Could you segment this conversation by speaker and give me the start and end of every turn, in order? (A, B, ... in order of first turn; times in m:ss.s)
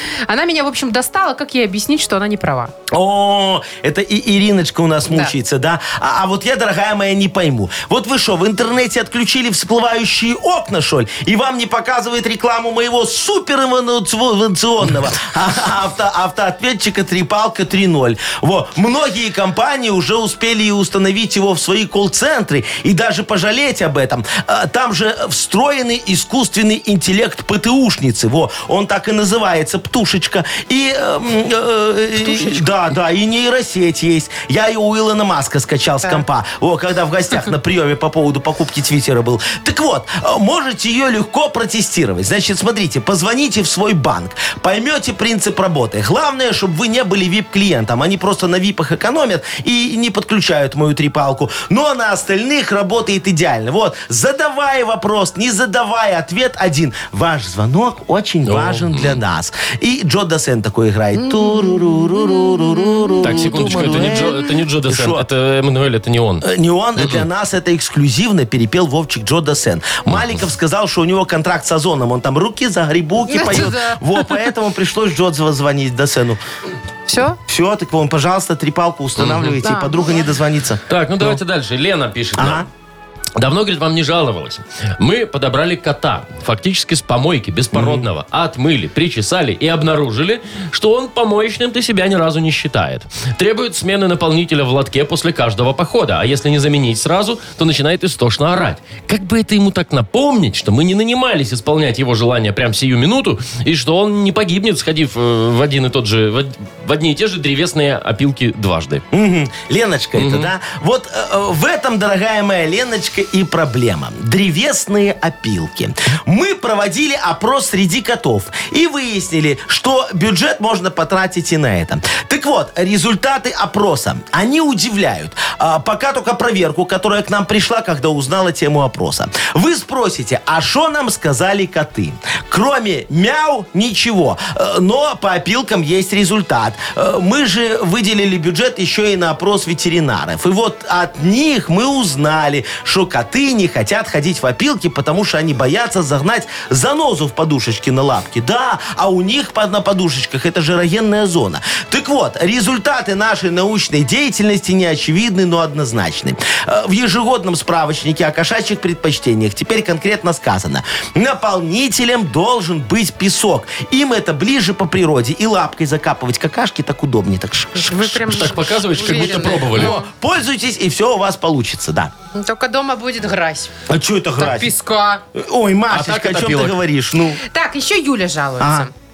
0:00.3-0:02.7 A
0:02.9-1:05.2 B
0:05.1-0:05.3 A
0:32.3-0:32.6 A
0:58.4-0:59.2 C
1:01.1-1:04.3 A
1:03.2-1:06.4 C
1:06.4-1:16.4 B
1:07.0-1:07.2 C
1:10.1-1:10.4 C
1:13.3-1:14.4 A
1:17.1-1:17.4 A
1:17.4-1:21.4 B
1:19.2-1:19.6 C
1:19.6-1:20.0 A
1:20.9-1:22.6 C
1:22.4-1:22.7 B
1:23.4-1:49.0 C
1:27.7-1:28.0 B
1:49.1-2:52.1 B
1:50.2-1:50.5 C
2:47.7-2:50.1 A
2:48.3-2:50.0 C
2:52.3-2:53.7 A
2:53.9-2:54.7 B
2:54.4-2:55.2 A
2:55.3-2:57.4 B
2:55.9-2:56.8 C
2:57.4-2:58.9 A
2:58.6-2:58.9 B